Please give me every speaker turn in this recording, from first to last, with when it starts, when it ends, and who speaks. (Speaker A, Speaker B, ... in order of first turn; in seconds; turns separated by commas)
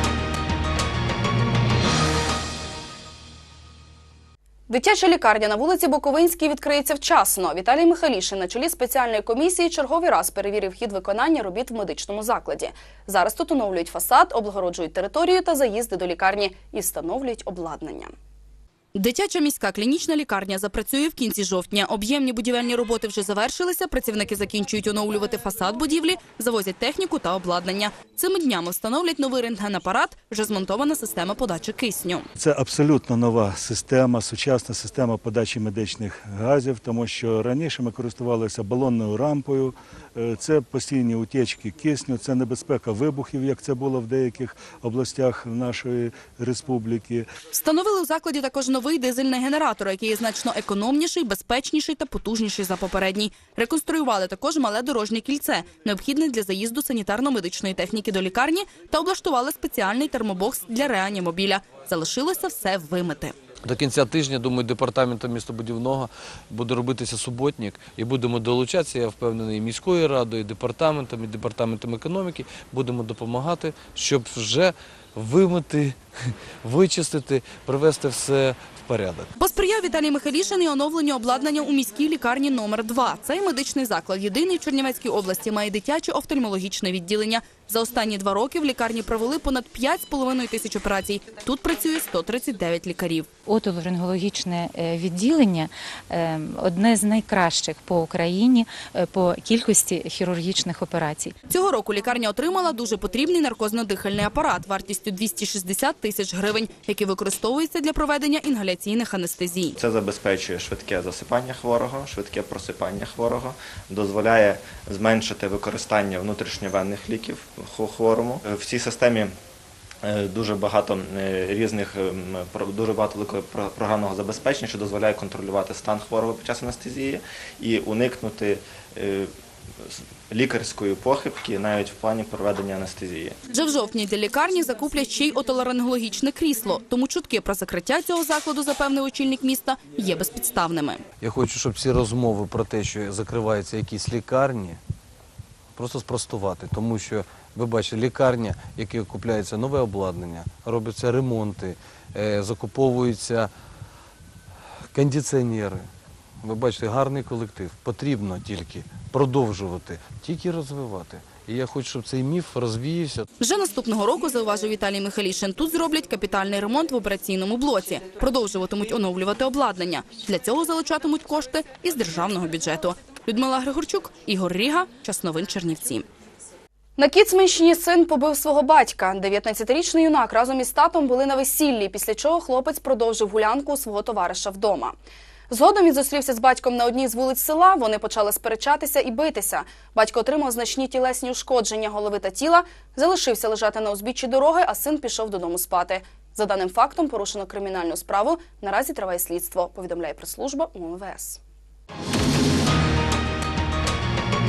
Speaker A: 4.7-18.1, Speaker A: 18.9-32.3, Speaker B: 32.4-47.2, Speaker A: 47.5-63.3, Speaker C: 63.6-76.1, Speaker C: 76.6-79.3, Speaker A: 79.4-93.3, Speaker D: 93.5-101.3, Speaker A: 101.5-109.8, Speaker E: 109.8-119.3, Speaker E: 120.0-129.3, Speaker E: 129.8-133.4, Speaker A: 133.5-141.0, Speaker C: 141.2-144.8, Speaker C: 145.8-153.5, Speaker C: 154.9-155.9, Speaker C: 156.4-163.3, Speaker A: 163.4-176.1, Speaker A: 177.0-185.0, Speaker A: 185.5-201.4